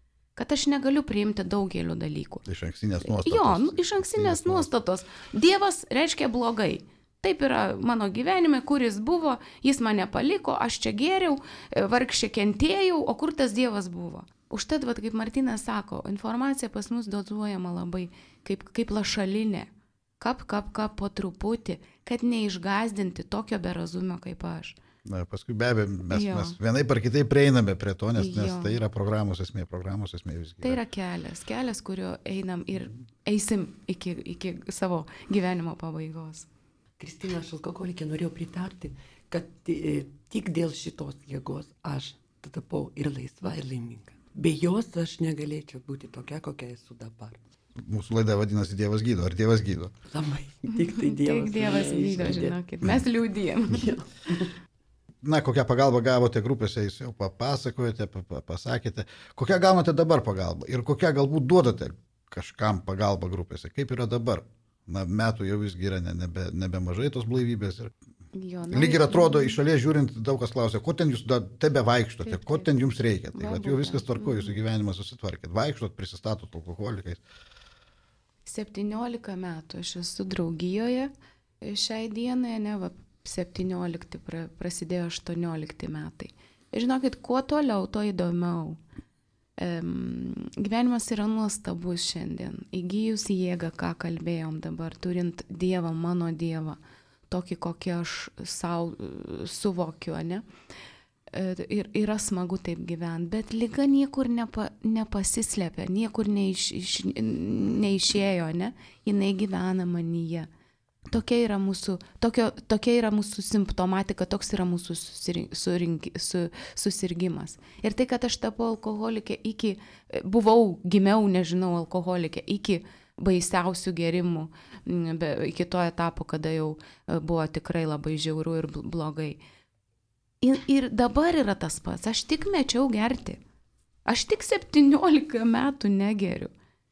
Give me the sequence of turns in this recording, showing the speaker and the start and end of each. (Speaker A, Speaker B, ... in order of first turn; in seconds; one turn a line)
Speaker A: 0.3-2.4
Speaker B: 2.5-4.7
Speaker A: 3.0-24.8
Speaker B: 25.1-30.8
Speaker A: 26.1-26.6
Speaker A: 28.1-28.8
Speaker A: 30.6-36.5
Speaker C: 37.0-47.4
Speaker B: 47.9-49.9
Speaker C: 50.1-52.6
Speaker A: 50.7-54.0
Speaker C: 53.7-54.5
Speaker B: 55.2-67.9
Speaker A: 68.3-69.6
Speaker B: 68.7-77.2
Speaker A: 72.2-72.7
Speaker A: 73.3-74.6
Speaker A: 78.5-88.8
Speaker A: 89.6-96.8
Speaker A: 97.3-100.4
Speaker A: 101.3-110.5
Speaker A: 111.1-129.4
Speaker A: 130.4-133.4
Speaker A: 134.1-136.5